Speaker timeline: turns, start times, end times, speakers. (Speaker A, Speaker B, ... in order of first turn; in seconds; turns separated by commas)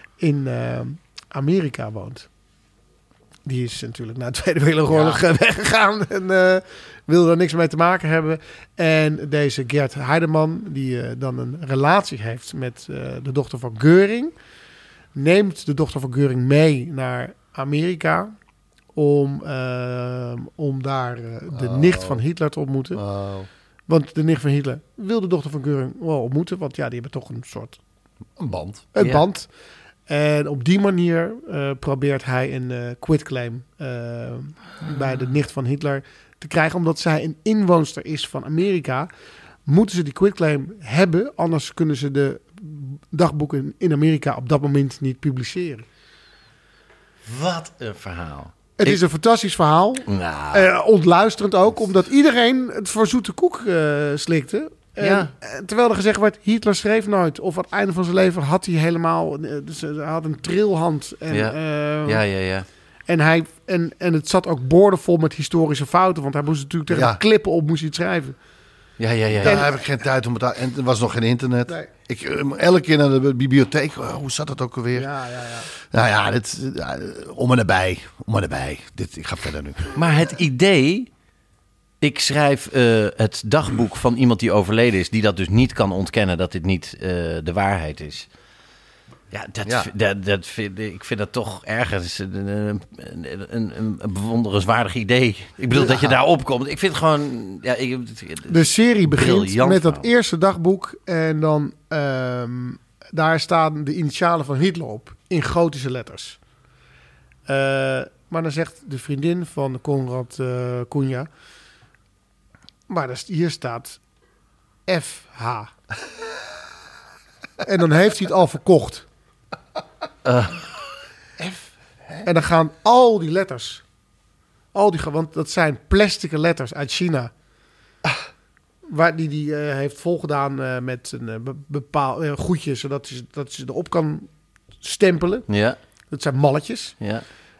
Speaker A: 0.2-2.3, Speaker A: 3.5-14.3, Speaker A: 15.1-18.3, Speaker A: 18.9-23.0, Speaker B: 21.5-22.2, Speaker B: 22.9-23.5, Speaker A: 23.9-27.8, Speaker B: 28.4-28.9, Speaker A: 28.9-29.5, Speaker C: 29.0-29.2, Speaker A: 30.1-39.1, Speaker A: 39.6-45.8, Speaker C: 47.2-49.0, Speaker A: 48.8-62.2, Speaker C: 50.1-50.7, Speaker C: 55.0-55.3, Speaker C: 61.3-62.7, Speaker A: 63.1-68.3, Speaker B: 66.9-67.2, Speaker C: 69.0-69.6, Speaker B: 69.3-75.1, Speaker A: 74.9-75.7, Speaker B: 75.7-80.0, Speaker C: 80.0-81.1, Speaker C: 82.0-88.3, Speaker C: 89.3-100.1, Speaker B: 89.6-89.9, Speaker B: 95.7-96.2, Speaker A: 98.5-106.4, Speaker A: 107.5-111.3, Speaker A: 112.9-114.0, Speaker A: 114.9-115.7, Speaker A: 117.6-119.0, Speaker C: 120.2-120.6, Speaker A: 121.4-123.8, Speaker A: 124.7-127.3, Speaker A: 128.8-134.3, Speaker A: 134.8-135.5, Speaker C: 135.5-135.8, Speaker A: 136.1-136.9